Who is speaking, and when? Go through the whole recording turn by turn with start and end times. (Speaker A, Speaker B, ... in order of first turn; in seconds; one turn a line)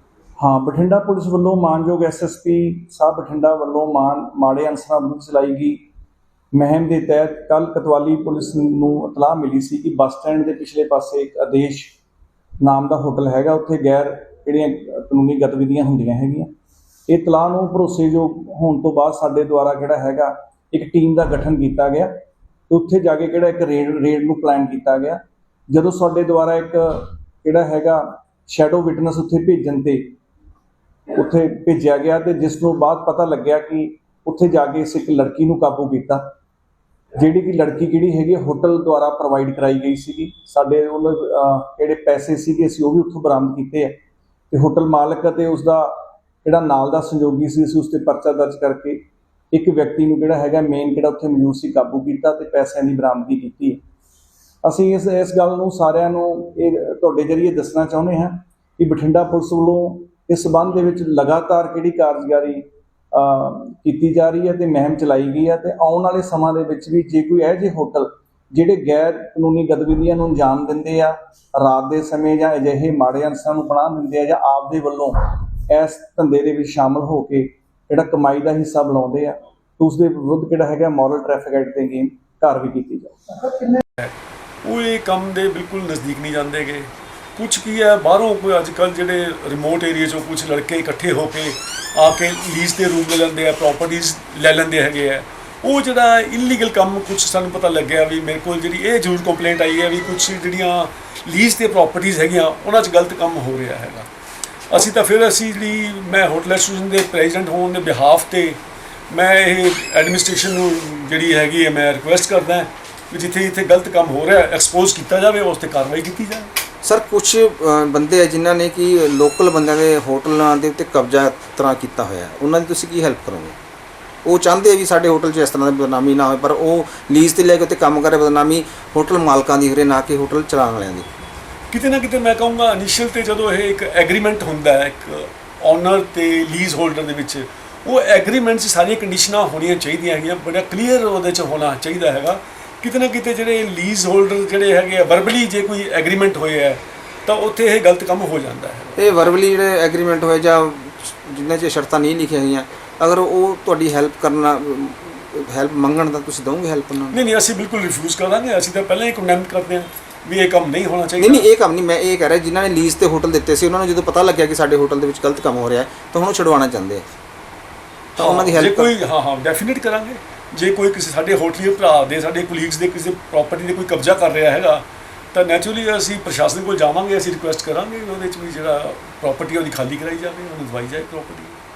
Speaker A: 0.4-5.8
Speaker A: 6.5-11.9
Speaker A: 12.6-16.5
Speaker A: 17.1-22.1
Speaker A: 22.7-30.1
Speaker A: 31.1-36.2
Speaker A: 37.2-44.0
Speaker A: 44.5-53.8
Speaker A: 54.6-83.6
Speaker B: 84.0-104.1
Speaker B: 104.7-108.6
Speaker B: 109.1-116.5
Speaker C: 116.8-123.5
Speaker C: 124.2-131.2
Speaker B: 131.7-149.0
Speaker C: 148.9-157.2
Speaker B: 157.1-161.5
Speaker C: 161.2-167.1
Speaker B: 168.2-181.6
Speaker C: 168.2-168.9